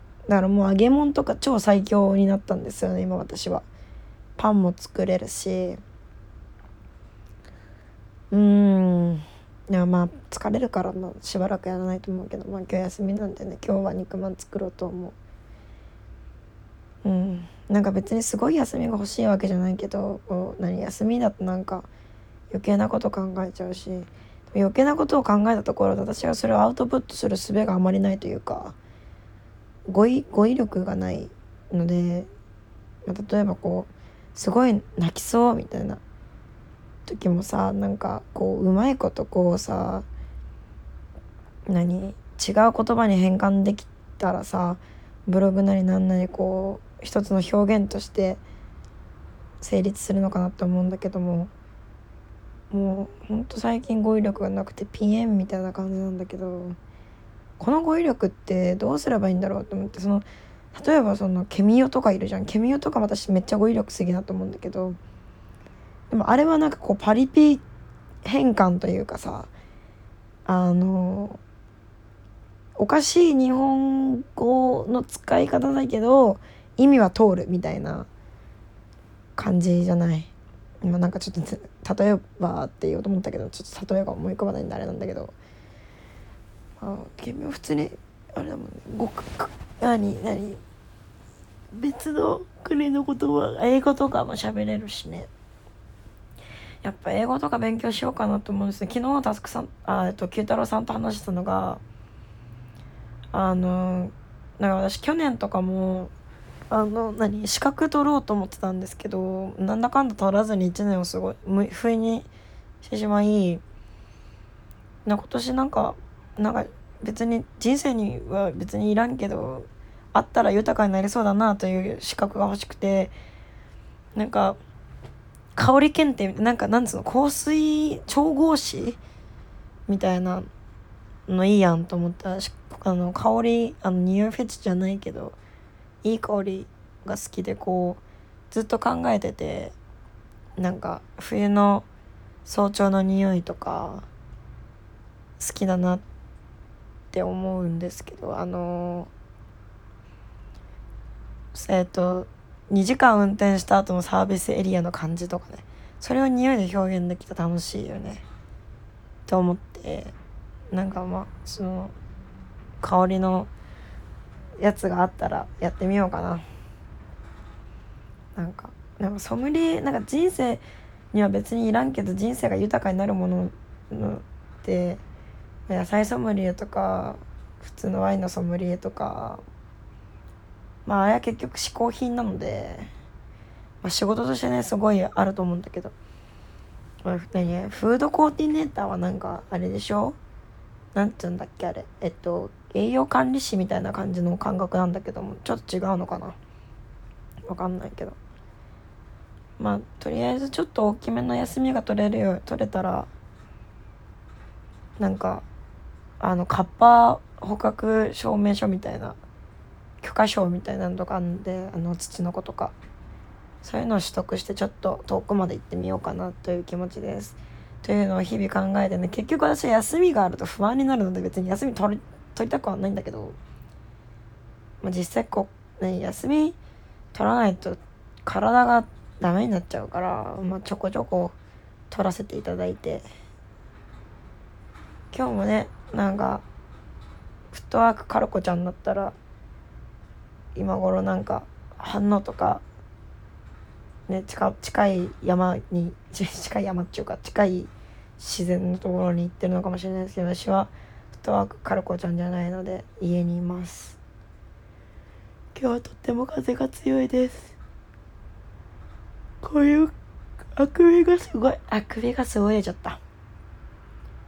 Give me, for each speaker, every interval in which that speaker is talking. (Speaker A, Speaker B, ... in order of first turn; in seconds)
Speaker A: 0.3-3.7, 4.4-5.8, 8.3-15.2, 17.0-21.9, 22.5-28.8, 29.9-32.3, 33.0-36.0, 37.1-40.1, 41.7-48.4, 49.6-51.5, 52.7-56.8, 57.6-65.0, 66.1-67.6, 68.2-69.5, 70.5-71.4, 72.8-78.1, 79.4-80.3, 80.8-85.4, 86.8-90.6, 91.7-95.3, 96.8-101.8, 103.3-106.1, 106.7-112.3, 112.8-113.6, 115.0-123.2, 124.2-124.6, 125.5-129.0, 129.9-130.5, 131.3-135.4, 136.0-139.8, 140.6-141.9, 142.4-144.1, 145.4-146.0, 147.1-149.1, 151.5-158.2, 159.3-160.2, 160.7-161.9, 162.8-163.5, 164.6-166.4, 168.3-175.0, 175.7-179.4, 180.8-182.9, 183.8-185.9, 187.0-190.2, 190.9-196.4, 197.5-198.2, 199.6-203.1, 205.0-205.5, 206.2-209.2, 210.0-212.8, 213.6-223.4, 224.8-226.6, 227.1-231.4, 231.9-233.1, 235.1-236.4, 237.5-239.2, 240.6-242.6, 244.1-254.0, 255.5-257.6, 259.4-259.9, 260.5-263.0